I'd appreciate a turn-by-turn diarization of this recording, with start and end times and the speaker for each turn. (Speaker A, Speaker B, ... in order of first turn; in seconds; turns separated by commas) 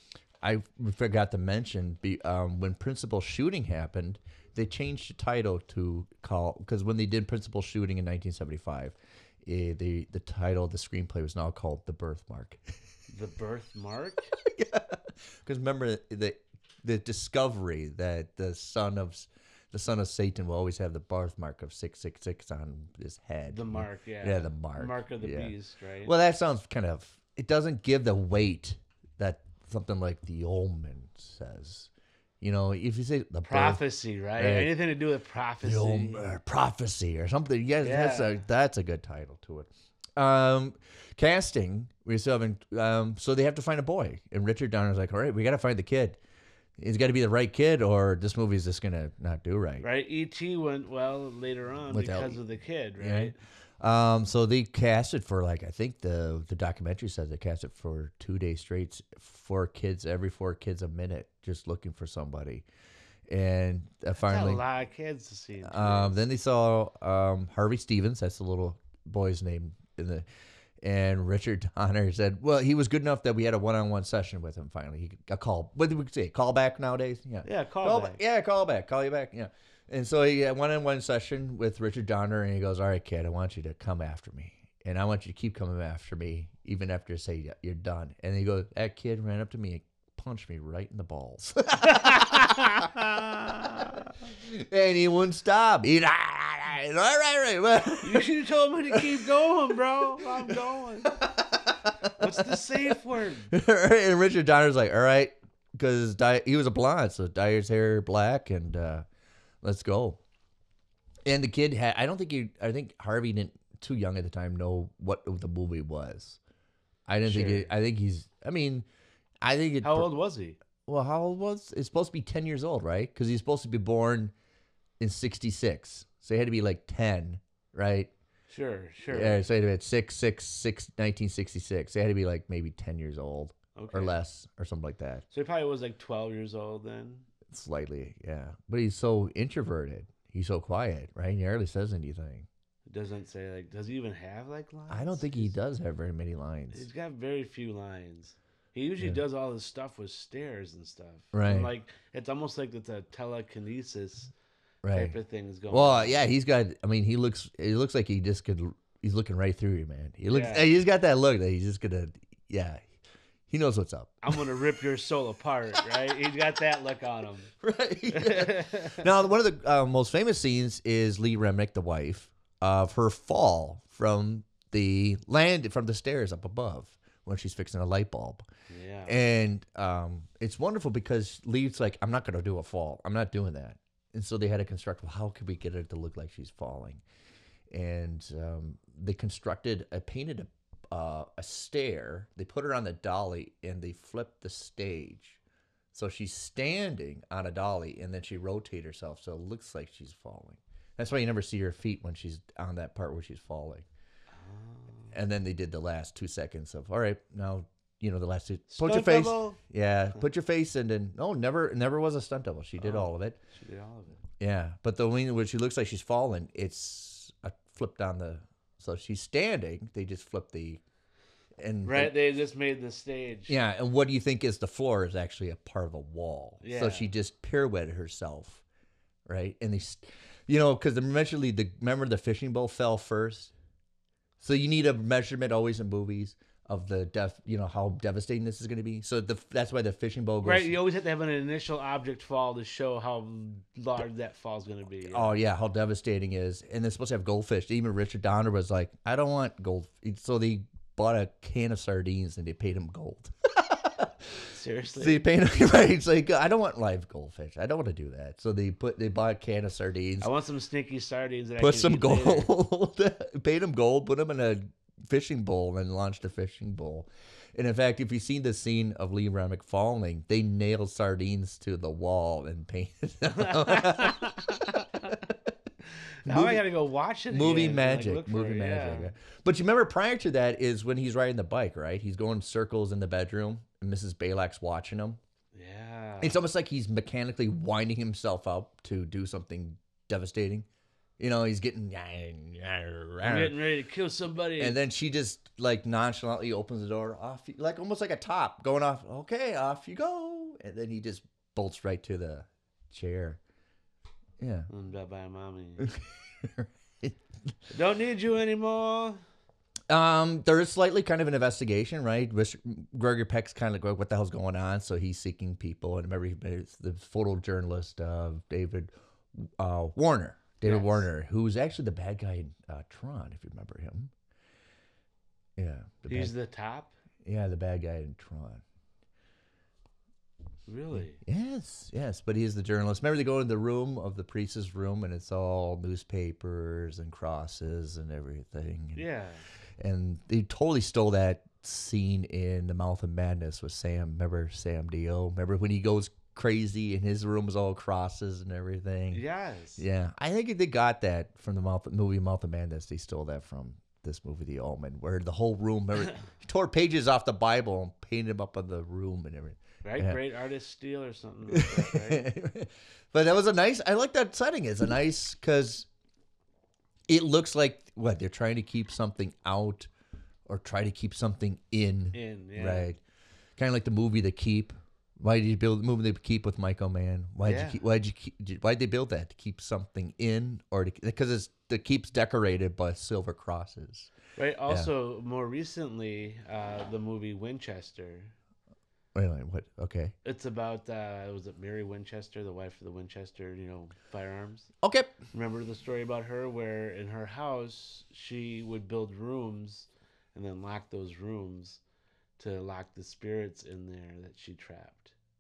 Speaker A: 0.4-12.6, Speaker B: 13.1-14.3, Speaker A: 14.4-31.9, Speaker B: 23.5-26.1, Speaker A: 32.4-33.8, Speaker B: 33.5-36.3, Speaker A: 34.4-34.7, Speaker A: 35.6-46.2, Speaker B: 37.8-38.4, Speaker A: 46.8-49.9, Speaker B: 49.8-53.4, Speaker A: 51.9-52.4, Speaker A: 53.0-62.6, Speaker A: 63.3-64.6, Speaker B: 64.2-66.2, Speaker A: 65.6-70.2, Speaker A: 70.8-98.3, Speaker B: 77.4-78.2, Speaker B: 91.9-92.9, Speaker B: 98.0-101.2, Speaker A: 100.5-102.6, Speaker B: 102.2-103.5, Speaker A: 103.5-109.0, Speaker A: 109.6-110.2, Speaker A: 111.2-116.4, Speaker A: 117.1-118.9, Speaker B: 117.2-117.7, Speaker A: 119.4-120.1, Speaker B: 119.8-120.6, Speaker A: 120.8-124.3, Speaker A: 125.0-128.1, Speaker B: 128.5-129.4, Speaker A: 129.1-135.2, Speaker B: 133.7-134.2, Speaker B: 135.3-137.3, Speaker A: 137.5-142.5, Speaker B: 142.9-145.5, Speaker A: 144.9-146.9, Speaker B: 146.7-154.3, Speaker A: 151.3-151.7, Speaker A: 154.8-155.2, Speaker B: 154.9-156.2, Speaker A: 155.7-162.9, Speaker B: 160.3-160.7, Speaker A: 163.5-164.6, Speaker B: 164.2-167.5, Speaker A: 167.6-178.4, Speaker B: 168.1-169.1, Speaker B: 178.7-179.2, Speaker A: 179.1-187.0, Speaker A: 187.7-195.4, Speaker A: 195.9-203.9, Speaker B: 204.3-205.1, Speaker A: 205.1-213.4, Speaker B: 208.7-209.6, Speaker B: 212.8-214.2, Speaker A: 214.4-220.8, Speaker A: 221.6-222.1, Speaker B: 221.8-223.6, Speaker A: 223.5-228.6, Speaker B: 226.6-227.1, Speaker A: 229.3-233.5, Speaker A: 234.4-240.8, Speaker B: 240.4-245.3, Speaker A: 245.1-260.3, Speaker B: 254.5-255.2, Speaker B: 260.2-262.5, Speaker A: 261.6-275.1, Speaker B: 273.4-275.1, Speaker B: 276.2-279.1, Speaker A: 276.2-276.6, Speaker A: 277.3-285.2, Speaker B: 285.6-286.4, Speaker A: 286.2-290.6, Speaker A: 291.2-293.6, Speaker B: 293.2-294.7, Speaker A: 294.6-303.4, Speaker A: 304.4-304.7, Speaker B: 304.7-305.9, Speaker A: 305.8-307.2, Speaker B: 307.7-309.2, Speaker A: 309.9-324.1, Speaker B: 320.6-321.1, Speaker A: 325.6-326.3, Speaker B: 326.1-326.9, Speaker A: 327.2-328.6, Speaker B: 330.6-331.2, Speaker A: 331.0-339.1, Speaker B: 338.9-339.4, Speaker A: 339.8-349.2, Speaker B: 349.1-349.8, Speaker A: 349.8-360.2, Speaker B: 359.8-362.2, Speaker A: 361.5-365.9, Speaker A: 367.1-369.9, Speaker A: 370.5-373.0, Speaker B: 372.1-372.9, Speaker A: 373.6-384.1, Speaker B: 377.4-377.8, Speaker B: 384.4-388.3, Speaker A: 389.1-390.1, Speaker B: 390.2-394.7, Speaker A: 394.8-395.1, Speaker B: 395.3-401.8, Speaker B: 402.4-405.1